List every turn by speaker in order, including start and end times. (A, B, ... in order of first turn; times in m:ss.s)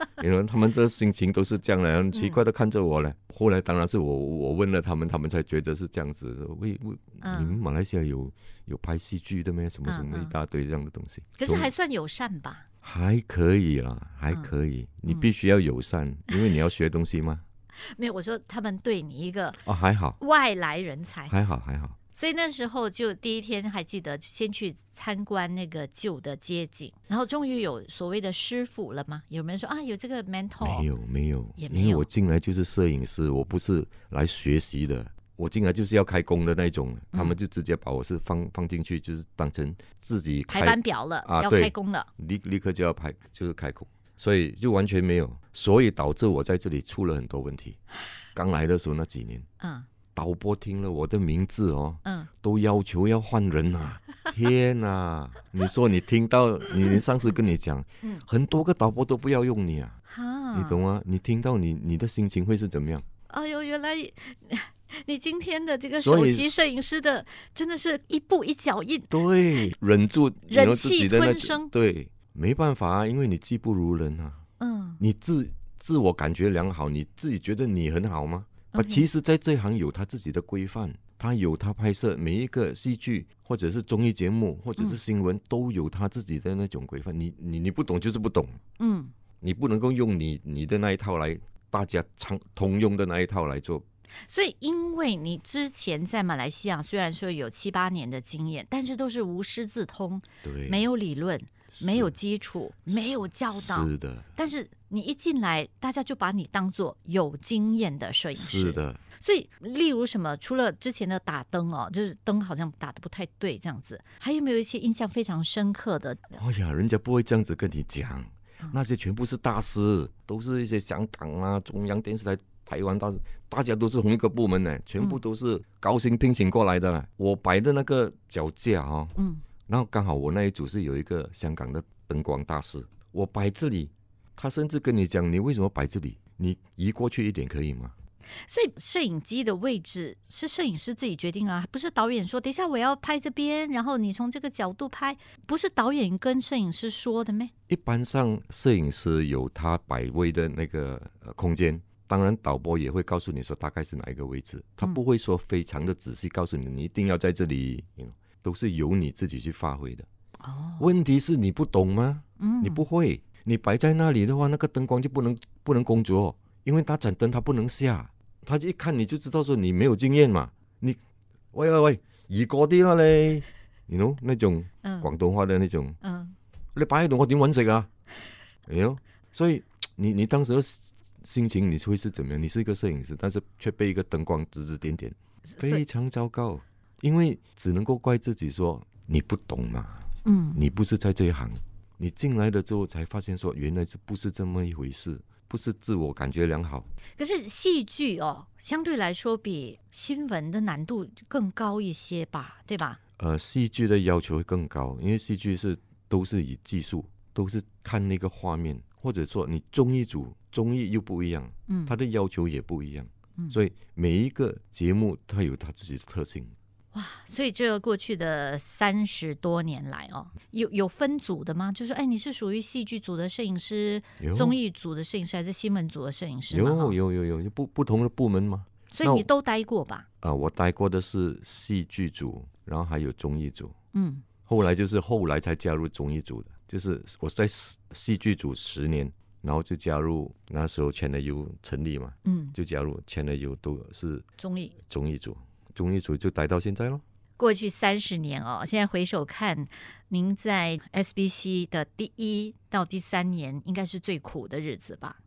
0:00.2-0:11.7 A
0:02.1-0:02.4 B
0:07.2-0:07.6 B
0:09.8-0:10.3 B
0:11.4-0:12.6 B
0:12.8-0:17.4 A
0:17.8-0:19.6 B
0:19.6-0:20.2 A
0:20.2-0:21.3 B
0:21.3-0:22.0 A
0:22.1-0:30.9 B
0:30.6-0:47.8 A
0:31.6-0:32.1 B
0:40.5-0:42.1 B
0:48.3-0:49.4 A
0:49.6-0:49.9 B
0:50.1-1:00.0 A
1:00.1-1:00.8 B
1:00.5-1:03.0 A
1:03.3-1:09.1 B
1:06.0-1:06.5 A
1:09.1-1:14.4 A
1:10.5-1:11.7 B
1:14.6-1:15.0 B
1:15.0-1:28.6 A
1:18.7-1:19.1 B
1:28.8-1:29.1 B
1:29.4-1:33.8 A
1:34.2-1:56.4 B
1:40.4-1:40.8 A
1:41.7-1:42.1 A
1:43.5-1:44.3 A
1:48.3-1:49.0 A
1:56.4-2:09.2 A
2:09.2-2:09.4 B
2:09.7-2:17.9 A
2:18.4-2:27.5 B
2:27.7-2:40.1 A
2:40.4-2:40.9 B
2:40.8-2:51.0 A
2:42.4-2:42.8 B
2:51.5-2:56.0 A
2:54.8-2:55.1 B
2:56.0-2:56.3 B
2:56.7-2:57.9 A
2:58.7-3:16.9 A
3:05.5-3:05.8 B
3:10.2-3:10.6 B
3:17.2-3:23.0 B
3:23.2-3:36.5 A
3:31.7-3:31.9 B
3:36.9-3:47.0 B
3:44.2-3:44.6 A
3:46.5-3:49.3 A
3:48.9-3:50.0 B
3:50.2-3:53.7 A
3:53.9-3:54.2 B
3:54.5-4:04.2 A
4:02.2-4:02.6 B
4:04.4-4:04.7 B
4:04.8-4:07.0 A
4:07.4-4:15.2 B